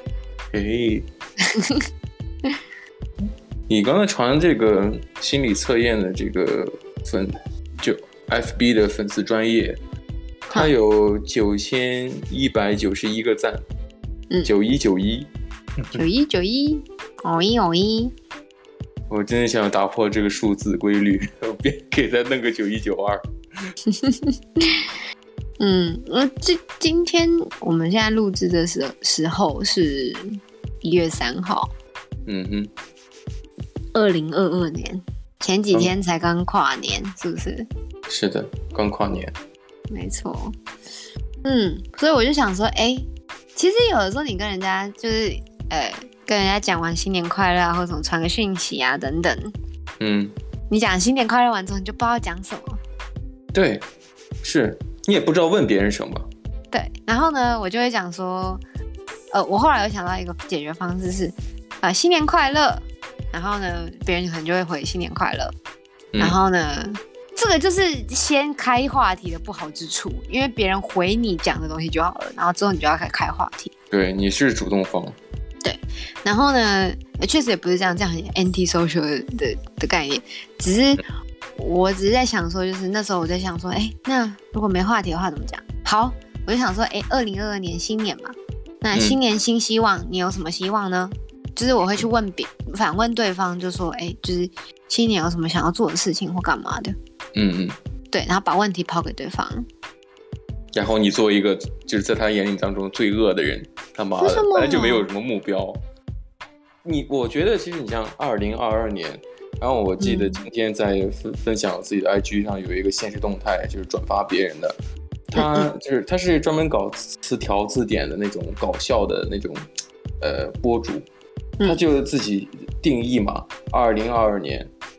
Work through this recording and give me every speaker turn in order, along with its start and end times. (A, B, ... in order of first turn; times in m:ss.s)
0:00.5-0:01.1 A
0:01.5-0:01.8 B
0:03.7-0:09.8 A
0:10.5-0:13.6 A
0:14.4-0:15.3 A
0:15.9-0:18.1 B
0:19.1-0:23.7 A
0:23.9-0:24.9 B
0:25.6-0:30.3 B
0:30.8-0:31.7 B
0:32.3-0:32.7 A
0:33.9-0:37.7 B
0:38.1-0:39.3 A
0:39.9-0:40.6 B
0:41.4-0:49.5 B
0:50.0-0:50.3 A
0:50.7-0:52.8 B
0:53.5-0:53.8 A
0:54.4-0:56.3 A
0:56.7-0:58.6 B
0:59.3-1:05.6 B
1:06.2-1:13.7 B
1:13.9-1:15.2 A
1:15.6-1:21.0 B
1:21.6-1:37.0 B
1:28.9-1:29.2 A
1:37.4-1:37.8 A
1:38.1-1:39.7 B
1:40.7-1:45.8 A
1:44.2-1:45.1 B
1:46.8-1:54.8 A
1:50.0-1:50.4 B
1:55.3-1:59.7 A
1:55.4-1:55.7 B
2:00.2-2:01.1 A
2:01.6-2:04.7 A